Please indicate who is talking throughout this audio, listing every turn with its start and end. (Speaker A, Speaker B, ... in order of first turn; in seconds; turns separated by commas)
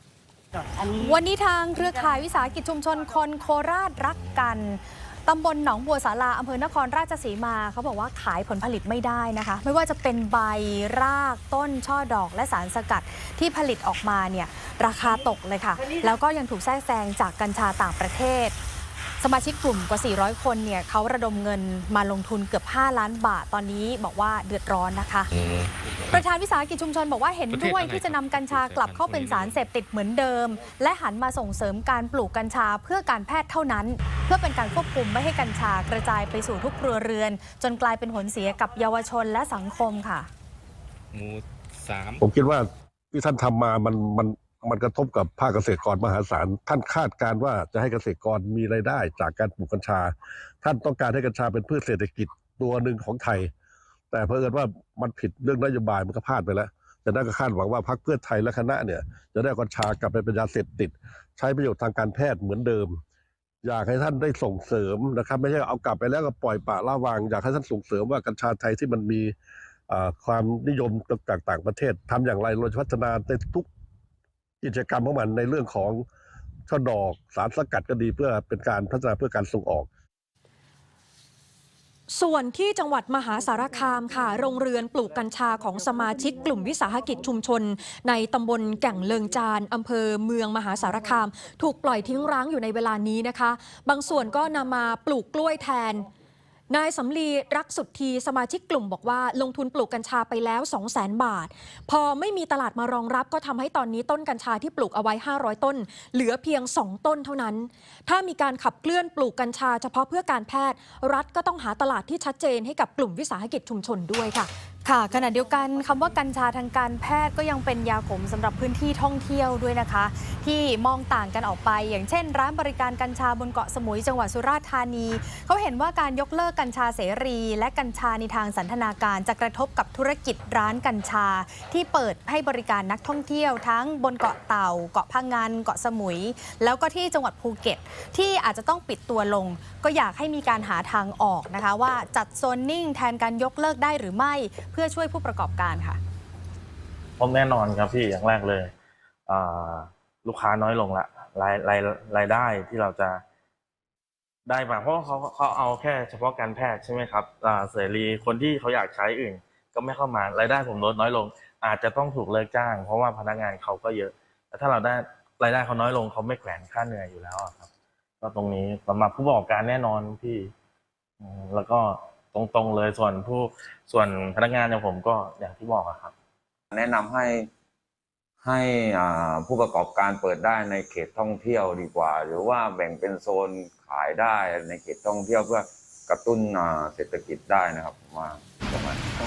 Speaker A: 1.0-18.6, Speaker A: 19.2-25.3, Speaker B: 25.3-26.2, Speaker A: 26.1-40.3, Speaker B: 27.5-29.6, Speaker B: 41.1-42.2, Speaker C: 42.2-53.5, Speaker C: 54.1-63.0, Speaker C: 63.6-69.3, Speaker C: 69.9-73.7, Speaker C: 74.6-76.0, Speaker C: 76.7-79.9, Speaker D: 82.1-96.1, Speaker D: 96.7-114.5, Speaker A: 114.8-146.0, Speaker E: 147.2-148.7, Speaker E: 149.3-153.2, Speaker E: 154.5-167.7, Speaker E: 168.2-170.5, Speaker E: 171.2-176.1, Speaker F: 176.7-177.5, Speaker F: 178.4-189.0